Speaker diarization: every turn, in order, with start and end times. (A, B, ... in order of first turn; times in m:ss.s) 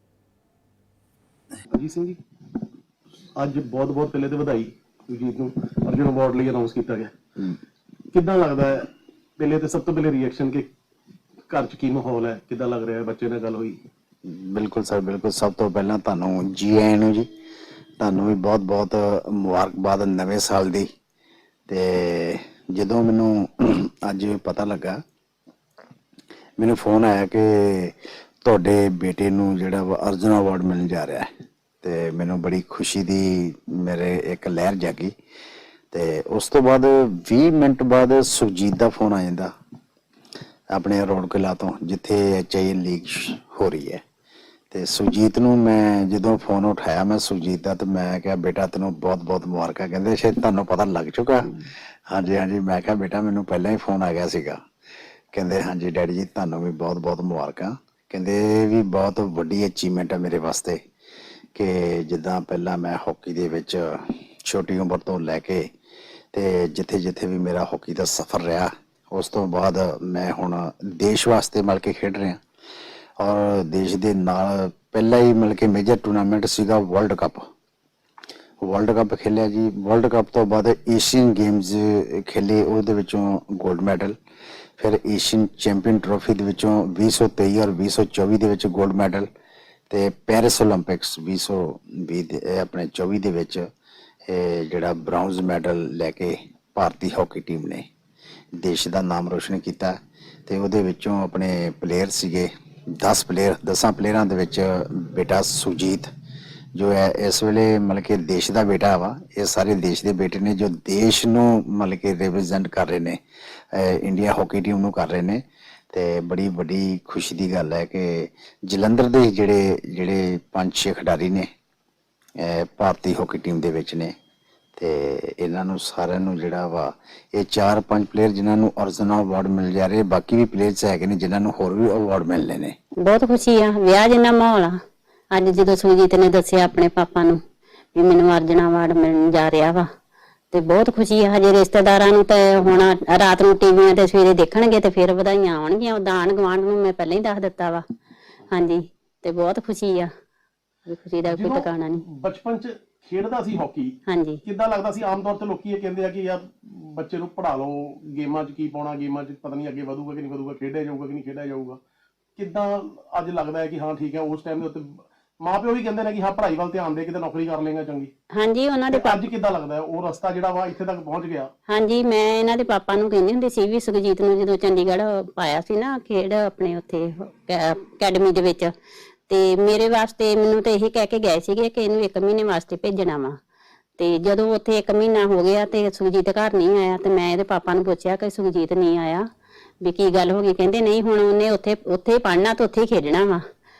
0:01.7-0:02.2 A
0:03.4-0:07.1 A
0:08.1-0:10.7 A
0:11.5-0:13.8 A
0:14.2-0:17.3 B
0:18.0-0:20.9 B
0:21.7-0:25.0 B
0:26.6-0:31.3 B
0:31.8-0:35.1 B
0:35.9-0:39.5 B
0:40.7-0:44.0 B
0:44.7-0:54.6 B
0:55.3-1:00.8 B
1:01.6-1:05.7 B
1:06.3-1:12.4 B
1:13.2-1:17.4 B
1:18.6-1:24.2 B
1:24.8-1:29.3 B
1:29.9-1:33.7 B
1:34.3-1:37.9 B
1:38.6-1:39.9 B
1:40.5-1:46.1 B
1:46.8-1:53.2 B
1:53.7-2:01.5 B
2:02.4-2:04.1 B
2:04.8-2:12.8 B
2:13.0-2:14.8 C
2:15.3-2:17.4 C
2:18.0-2:19.9 C
2:20.5-2:27.8 C
2:28.5-2:30.1 C
2:30.9-2:32.0 C
2:31.3-2:33.9 A
2:34.1-2:34.4 C
2:34.4-2:41.8 A
2:42.4-2:48.1 A
2:48.3-2:49.3 C
2:48.9-2:51.5 A
2:51.7-2:58.7 C
2:59.3-3:03.4 C
3:04.0-3:09.3 C
3:09.8-3:13.4 C